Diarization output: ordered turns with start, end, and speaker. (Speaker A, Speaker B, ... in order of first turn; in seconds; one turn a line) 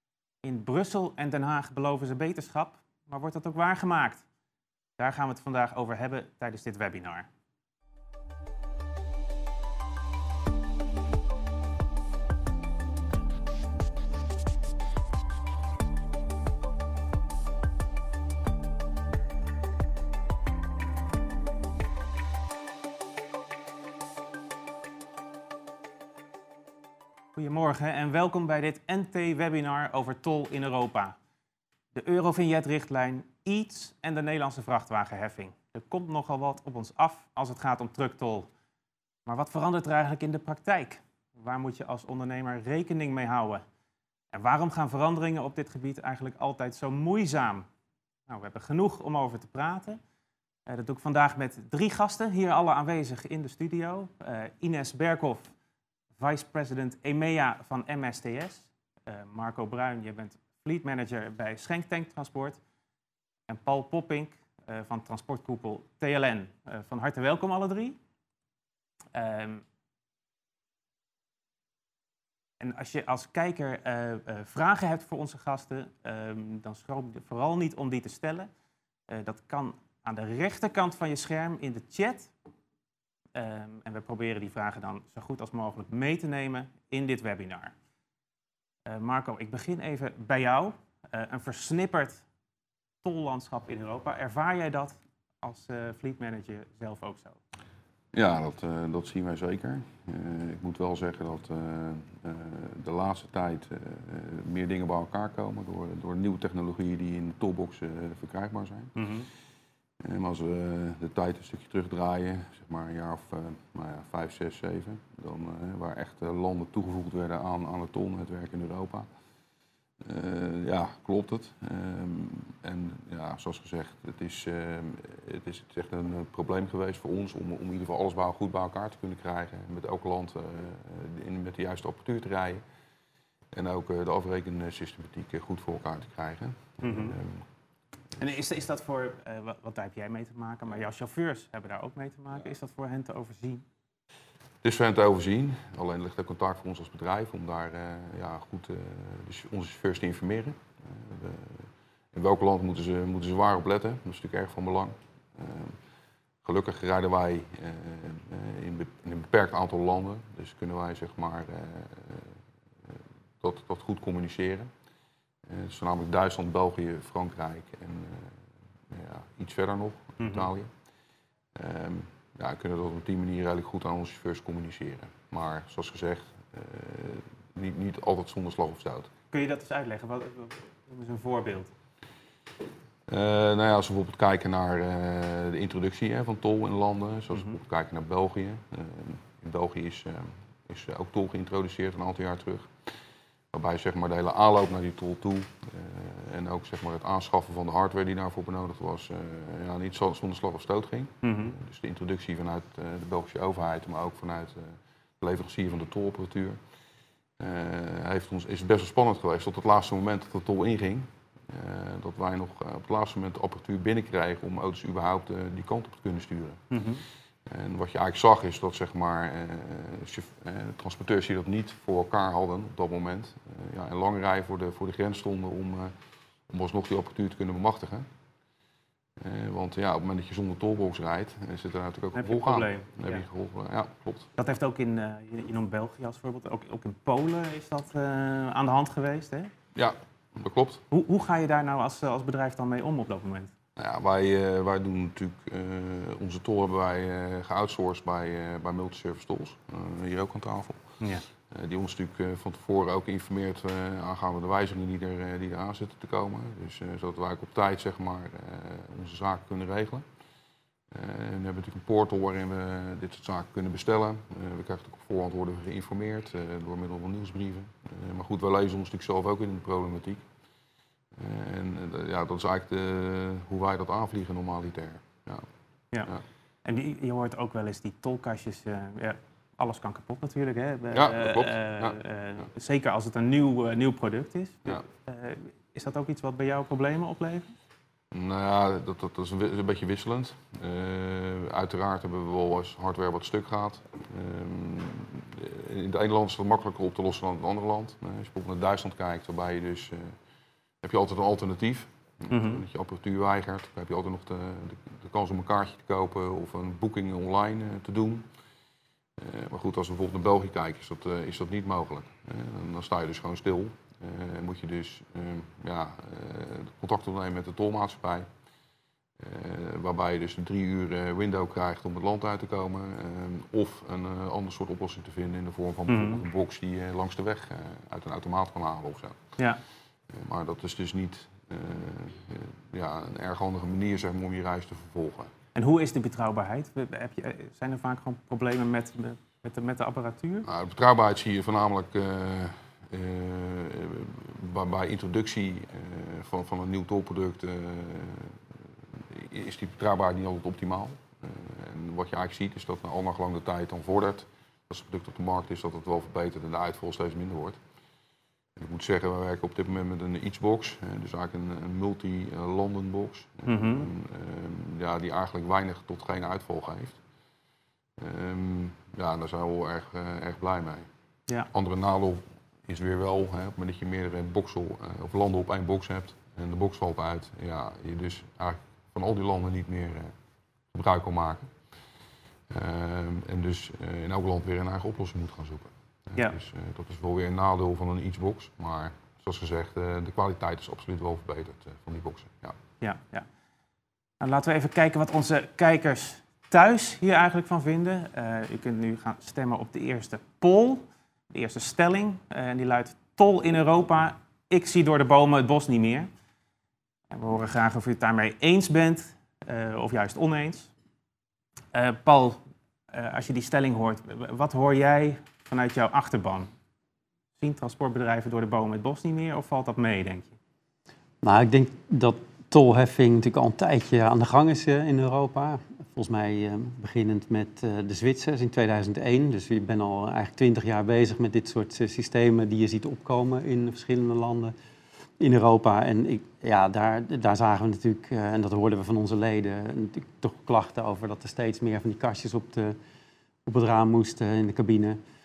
Speaker A: 0.4-4.2
Speaker A: 5.0-7.3
Speaker A: 27.3-31.1
Speaker A: 31.9-38.5
Speaker A: 39.2-43.6
Speaker A: 44.3-47.7
Speaker A: 48.3-50.0
Speaker A: 50.6-55.5
Speaker A: 56.2-62.6
Speaker A: 63.5-68.0
Speaker A: 69.1-69.6
Speaker A: 72.6-78.5
Speaker A: 79.1-82.3
Speaker A: 83.3-87.7
Speaker A: 88.8-92.2
Speaker A: 93.0-97.4
Speaker B: 98.1-109.0
Speaker A: 109.0-109.3
Speaker B: 110.0-119.1
Speaker B: 120.0-132.6
Speaker B: 133.5-137.4
Speaker A: 136.8-137.2
Speaker A: 138.2-143.6
Speaker B: 144.6-155.8
Speaker B: 156.4-162.3
Speaker B: 163.4-164.7
Speaker B: 165.5-168.4
Speaker B: 168.9-170.7
Speaker A: 170.2-170.5
Speaker B: 171.5-179.1
Speaker A: 179.3-181.7
Speaker B: 183.1-192.7
Speaker B: 193.5-206.6
Speaker A: 201.2-201.5
Speaker B: 207.4-216.6
Speaker A: 216.7-217.0
Speaker B: 217.4-225.9
Speaker B: 226.5-228.1
Speaker B: 229.2-234.3
Speaker A: 232.1-233.2
Speaker A: 234.4-239.5
Speaker B: 239.7-240.8
Speaker A: 240.9-243.5
Speaker B: 243.8-250.9
Speaker A: 251.0-251.2
Speaker B: 251.5-260.0
Speaker B: 260.9-270.2
Speaker B: 271.1-275.4
Speaker A: 276.6-287.5
Speaker B: 280.9-281.9
Speaker B: 288.1-300.1
Speaker B: 300.8-308.2
Speaker A: 302.3-302.6
Speaker B: 309.2-318.3
Speaker B: 319.2-329.2
Speaker A: 325.9-326.2
Speaker B: 330.1-335.3
Speaker A: 335.5-340.5
Speaker B: 340.4-357.6
Speaker B: 358.6-367.0
Speaker A: 363.4-363.9
Speaker B: 368.0-370.9
Speaker B: 371.5-380.1
Speaker B: 380.7-381.5
Speaker B: 382.5-392.6
Speaker A: 392.8-393.2
Speaker A: 394.2-406.1
Speaker A: 407.1-410.7
Speaker A: 411.7-412.4
Speaker A: 412.9-416.5
Speaker A: 417.4-420.3
Speaker C: 421.2-434.5
Speaker C: 435.2-442.7
Speaker C: 443.4-445.0